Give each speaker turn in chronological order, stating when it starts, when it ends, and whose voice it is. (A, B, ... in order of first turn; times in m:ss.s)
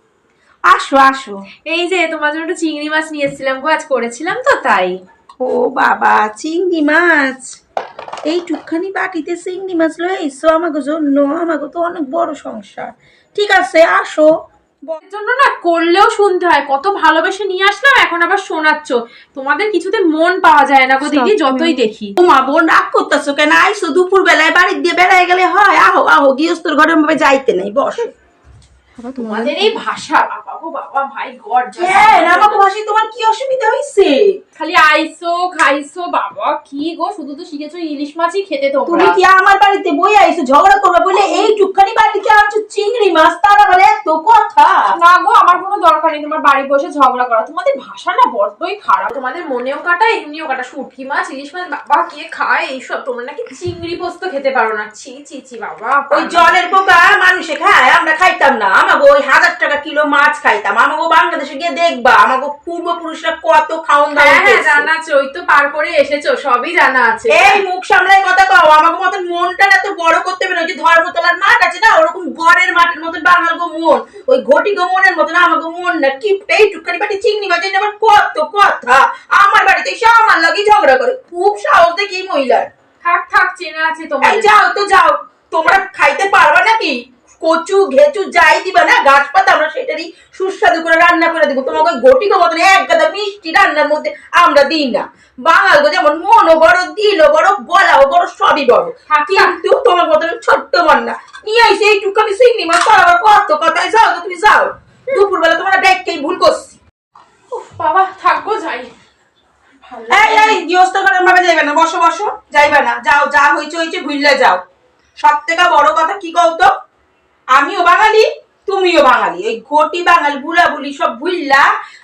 0:00.7-0:01.4 A
0:01.6-0:05.0 B
0:05.4-0:07.5 A
0:08.2-0:14.3 A
0:15.0-0:22.1 B
0:22.2-0:28.1 A
0:29.1-0:32.7 B
0:31.8-0:34.4 A
0:34.6-0:39.2 B
0:38.9-0:44.9 A
0:41.1-0:41.5 B
0:44.9-0:56.5 B
0:56.1-1:04.9 A
1:04.2-1:07.6 B
1:07.3-1:22.7 A
1:23.0-1:24.5 B
1:24.2-1:46.8 A
1:39.1-1:39.5 B
1:47.5-1:48.9 B
1:49.8-1:50.6 B
1:50.1-1:54.6 A
1:55.2-1:56.7 A
1:57.5-2:01.7 A